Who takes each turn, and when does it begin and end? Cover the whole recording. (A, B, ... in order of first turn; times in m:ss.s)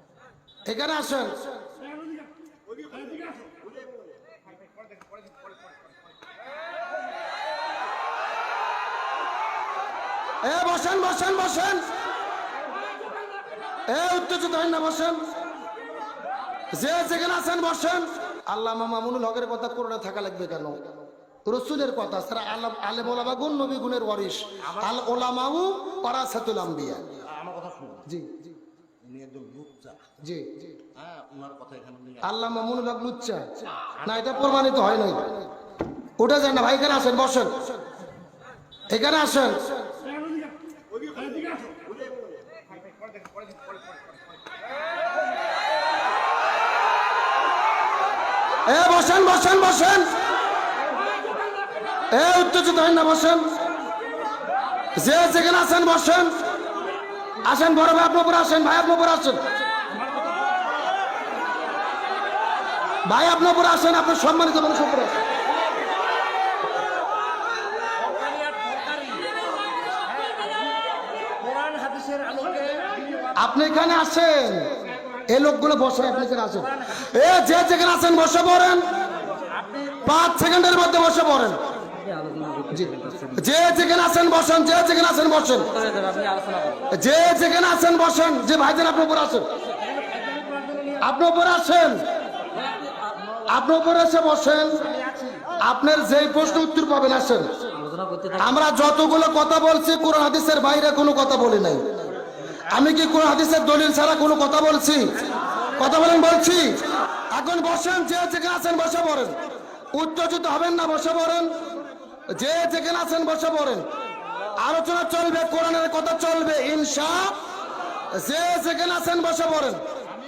0:00.6-0:01.6 A
0:03.0-0:03.3 B
0:10.4-0:11.9 A
0:13.9-0:15.2 A
0:16.7-0:20.9 A
0:21.5-0:27.2 A
0:27.4-0:28.0 B
0:28.0-0:28.4 A
0:29.1-0:30.0 B
0:30.2-0:30.8 A
0:31.0-0:32.2 B
0:32.2-0:35.4 A
0:36.2-0:37.7 A
0:38.9-0:39.8 A
0:41.2-0:41.6 B
0:48.7-0:50.2 A
0:52.1-0:53.5 A
0:54.9-0:56.5 A
0:57.4-0:59.4 A
1:03.0-1:05.2 A
1:08.1-1:09.3 B
1:11.4-1:13.2 B
1:13.4-1:14.8 A
1:15.3-1:18.9 A
1:20.0-1:21.6 A
1:22.0-1:23.3 B
1:22.7-1:25.9 A
1:25.8-1:26.9 B
1:26.9-1:29.5 A
1:30.1-1:30.9 B
1:31.0-1:32.1 A
1:33.5-1:34.9 A
1:35.6-1:37.7 A
1:37.8-1:38.4 B
1:38.4-1:51.6 A
1:52.3-1:53.9 A
1:54.6-1:57.4 A
1:58.1-1:59.8 A